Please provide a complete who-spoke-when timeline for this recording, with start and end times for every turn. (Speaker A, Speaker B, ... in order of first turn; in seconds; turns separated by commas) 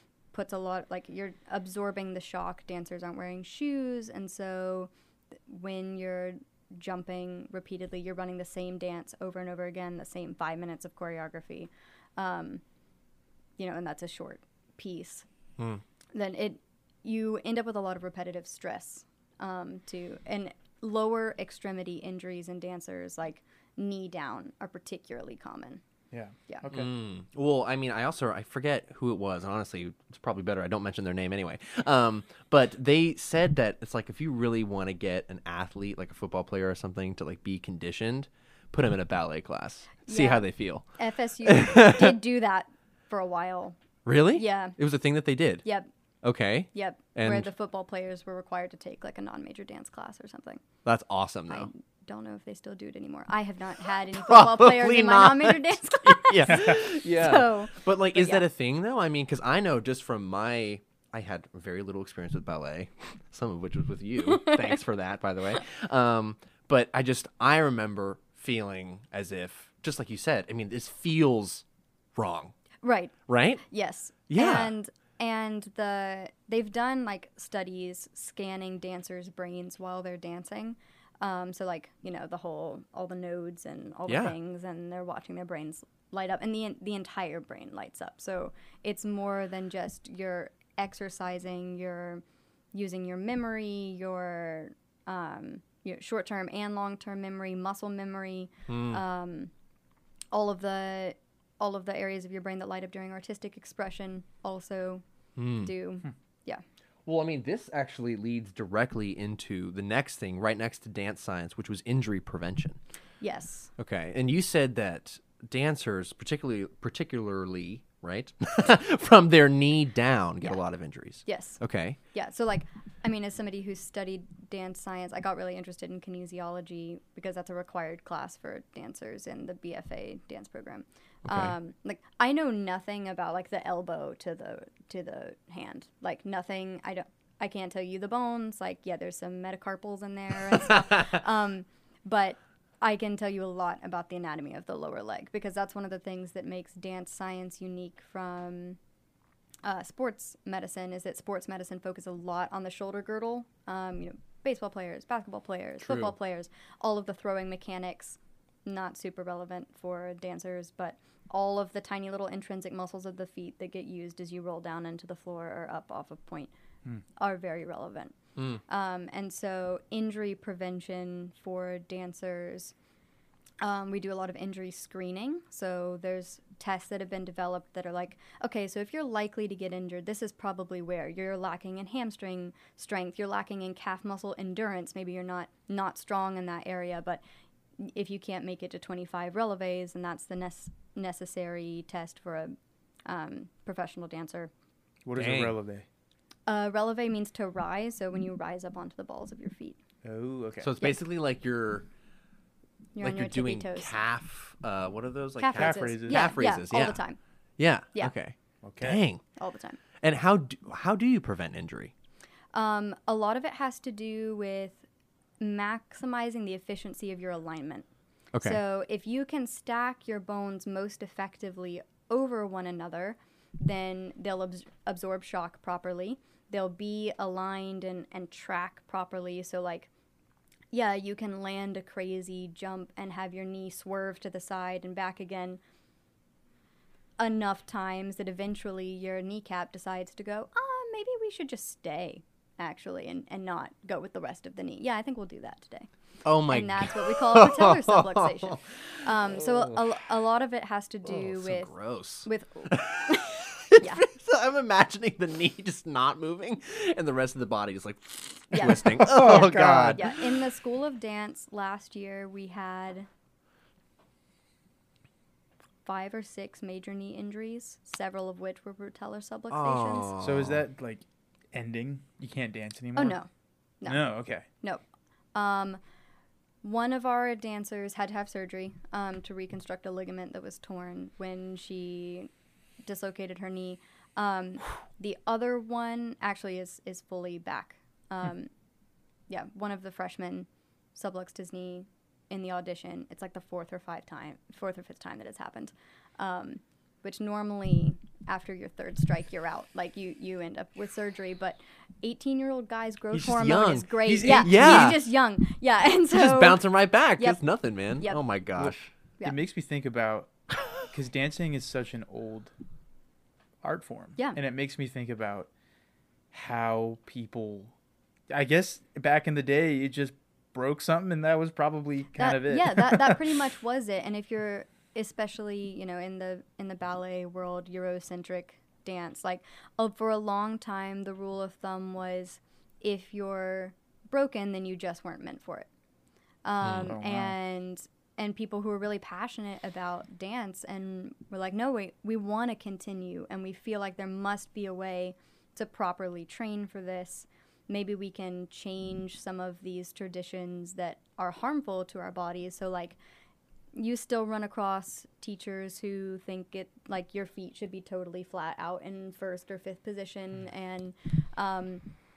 Speaker A: 0.3-12.6, Speaker A: 13.6-15.3, Speaker A: 16.1-25.8, Speaker B: 26.1-26.9, Speaker C: 26.7-40.9, Speaker A: 40.1-43.8, Speaker C: 41.4-42.1, Speaker C: 44.0-45.6, Speaker A: 44.4-44.8, Speaker A: 45.6-45.9, Speaker C: 46.2-47.5, Speaker A: 46.7-50.6, Speaker C: 50.9-51.7, Speaker A: 51.5-58.5, Speaker C: 54.1-72.6, Speaker B: 56.5-56.8, Speaker A: 64.3-64.6, Speaker A: 72.8-73.1, Speaker C: 73.3-73.6, Speaker A: 73.7-99.5, Speaker C: 74.3-74.7, Speaker C: 84.1-84.3, Speaker C: 98.7-99.0, Speaker A: 100.3-105.0, Speaker C: 105.4-105.7, Speaker A: 105.5-106.6, Speaker C: 107.1-112.8, Speaker A: 113.2-113.7, Speaker C: 113.8-122.0, Speaker A: 121.2-148.8, Speaker C: 131.3-131.6, Speaker A: 149.6-166.5, Speaker C: 155.8-156.2, Speaker A: 167.2-168.2, Speaker A: 168.7-172.7, Speaker A: 173.6-187.2, Speaker A: 187.8-192.6, Speaker A: 193.1-194.5, Speaker B: 195.1-195.9, Speaker C: 195.2-195.6, Speaker A: 196.5-199.8, Speaker B: 200.0-200.7, Speaker C: 200.6-201.9, Speaker A: 202.9-203.9, Speaker C: 203.0-207.0, Speaker A: 205.4-207.2, Speaker B: 205.5-206.4, Speaker C: 207.6-209.2, Speaker B: 208.6-209.0, Speaker A: 209.4-209.8, Speaker C: 210.0-211.9, Speaker A: 212.5-214.8, Speaker A: 215.4-217.9, Speaker C: 218.3-218.6, Speaker A: 218.4-229.9, Speaker A: 230.7-235.6, Speaker A: 237.2-245.9, Speaker C: 246.2-248.6, Speaker A: 246.5-251.7, Speaker C: 249.3-249.9, Speaker C: 251.1-260.1, Speaker A: 252.2-254.1, Speaker A: 258.5-263.1, Speaker B: 259.0-260.0, Speaker A: 265.9-270.1, Speaker C: 269.5-270.6, Speaker B: 270.2-273.2, Speaker A: 272.9-273.3, Speaker A: 273.8-274.8, Speaker B: 273.9-274.5, Speaker A: 275.3-275.8, Speaker A: 276.6-282.3, Speaker A: 282.9-288.5, Speaker A: 289.3-306.6, Speaker C: 303.1-305.0, Speaker B: 304.1-304.9, Speaker C: 306.1-308.9, Speaker A: 308.0-308.2, Speaker B: 308.6-312.5, Speaker B: 313.6-315.5, Speaker B: 316.3-317.7, Speaker B: 318.3-323.3, Speaker A: 322.2-335.7, Speaker A: 336.4-353.0, Speaker C: 336.6-336.9, Speaker B: 336.9-337.4, Speaker A: 353.7-361.9